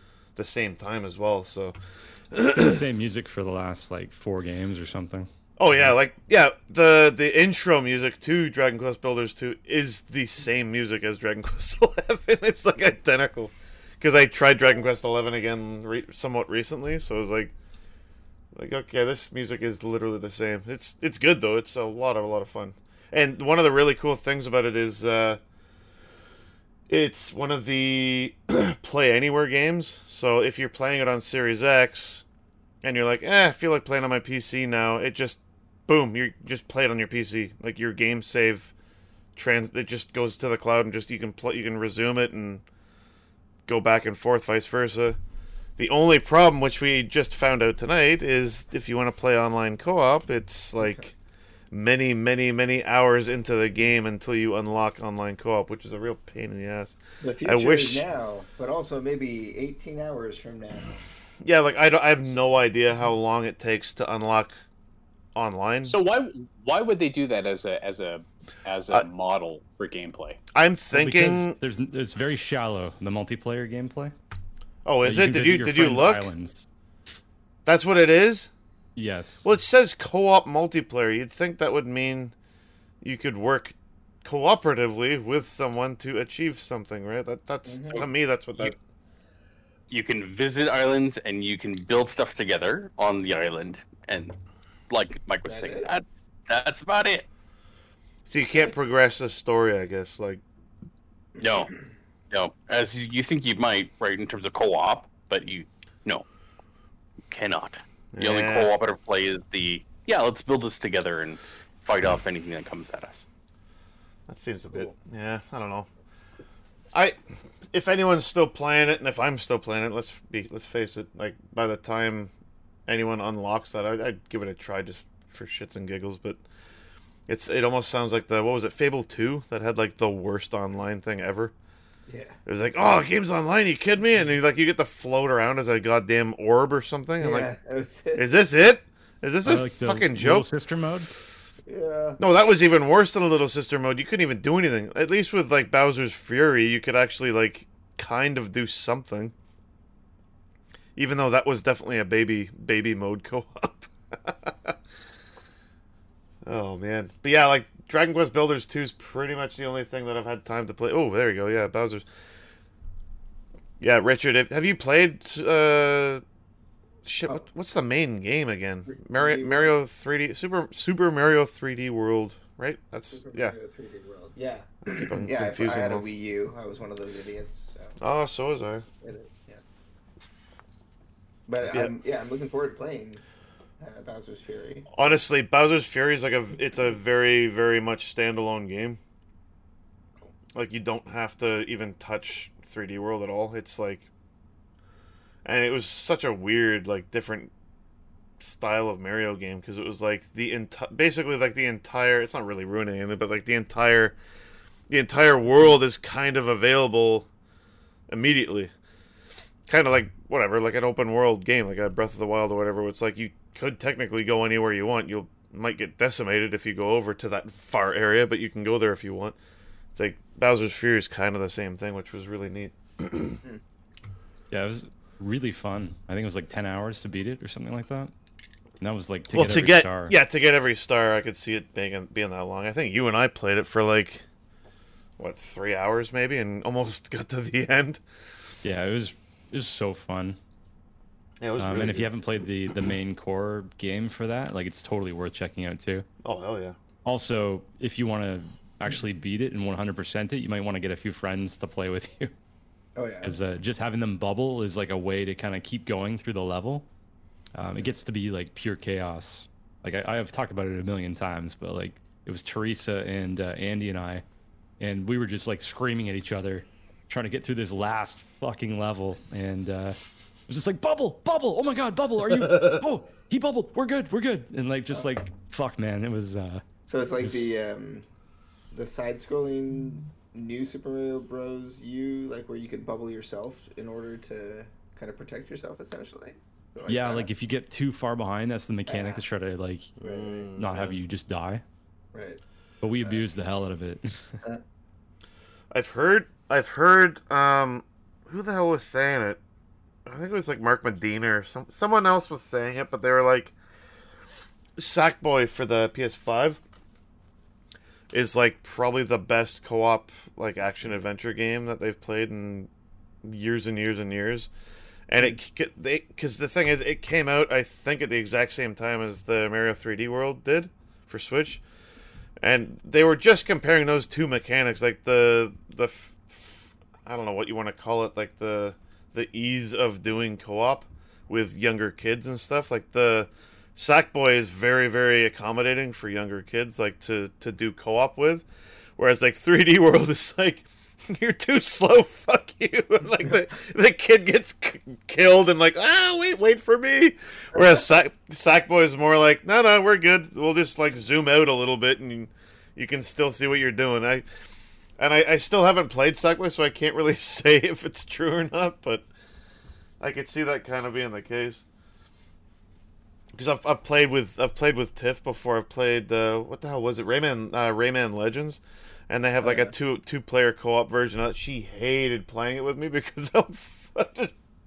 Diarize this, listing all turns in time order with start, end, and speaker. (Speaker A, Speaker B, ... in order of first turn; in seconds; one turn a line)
Speaker A: 0.4-1.8
Speaker A: 2.3-2.8
Speaker B: 2.6-5.9
Speaker A: 5.6-17.5
Speaker A: 18.5-25.4
Speaker A: 26.9-32.2
Speaker A: 32.8-38.7
Speaker A: 39.4-42.6
Speaker A: 43.7-45.2
Speaker A: 45.8-51.1
Speaker A: 51.7-58.1
Speaker C: 57.2-61.1
Speaker A: 61.4-64.6
Speaker A: 65.3-66.0
Speaker D: 65.9-70.4
Speaker A: 70.5-71.5
Speaker B: 70.9-74.1
Speaker A: 74.8-76.3
Speaker B: 75.0-76.7
Speaker A: 77.7-78.5
Speaker B: 79.0-79.5
Speaker A: 79.4-82.3
Speaker A: 83.0-88.8
Speaker C: 87.7-88.1
Speaker E: 89.9-94.4
Speaker E: 94.9-97.3
Speaker C: 95.5-95.9
Speaker A: 98.2-100.4
Speaker C: 101.4-101.8
Speaker E: 101.4-101.7
Speaker E: 102.3-106.2
Speaker E: 107.3-113.3
Speaker A: 108.1-108.7
Speaker A: 114.3-115.9
Speaker A: 117.7-122.3
Speaker A: 122.9-126.4
Speaker A: 127.3-131.5
Speaker C: 132.1-132.4
Speaker A: 132.5-137.5
Speaker C: 137.2-138.3
Speaker A: 138.2-140.5
Speaker B: 139.4-141.1
Speaker C: 141.7-142.2
Speaker A: 142.2-149.3
Speaker A: 151.0-154.8
Speaker A: 156.4-162.1
Speaker A: 163.8-166.2
Speaker A: 167.1-173.6
Speaker C: 168.9-169.8
Speaker C: 173.1-178.0
Speaker A: 174.9-176.1
Speaker A: 178.0-178.9
Speaker C: 179.0-179.6
Speaker C: 181.5-183.2
Speaker A: 181.7-182.0
Speaker C: 183.8-184.9
Speaker A: 184.9-189.0
Speaker A: 190.6-194.1
Speaker A: 195.4-197.5
Speaker A: 198.4-204.2
Speaker A: 204.9-207.3
Speaker A: 208.1-208.7
Speaker A: 209.7-219.4
Speaker A: 219.9-223.4
Speaker B: 224.5-228.1
Speaker B: 228.8-230.2
Speaker A: 229.3-234.2
Speaker A: 235.2-238.0
Speaker B: 238.6-240.4
Speaker A: 241.4-242.2
Speaker B: 241.6-246.1
Speaker A: 246.2-246.8
Speaker B: 247.1-252.3
Speaker C: 253.0-253.4
Speaker B: 253.2-256.9
Speaker B: 257.6-264.2
Speaker B: 264.8-276.6
Speaker C: 274.9-275.2
Speaker C: 276.9-278.1
Speaker B: 277.2-277.5
Speaker C: 278.7-287.3
Speaker B: 286.9-289.9
Speaker C: 288.9-289.2
Speaker C: 290.0-290.5
Speaker A: 290.0-291.0
Speaker B: 290.6-291.6
Speaker C: 292.1-292.4
Speaker B: 292.8-294.2
Speaker A: 295.7-299.4
Speaker A: 300.1-303.5
Speaker A: 304.8-306.6
Speaker A: 308.1-312.7
Speaker A: 313.2-314.5
Speaker A: 315.1-321.6
Speaker A: 322.4-338.5
Speaker A: 339.0-354.3
Speaker C: 347.5-347.8
Speaker A: 355.0-359.1
Speaker A: 360.0-361.6
Speaker A: 363.3-374.3
Speaker C: 369.4-369.7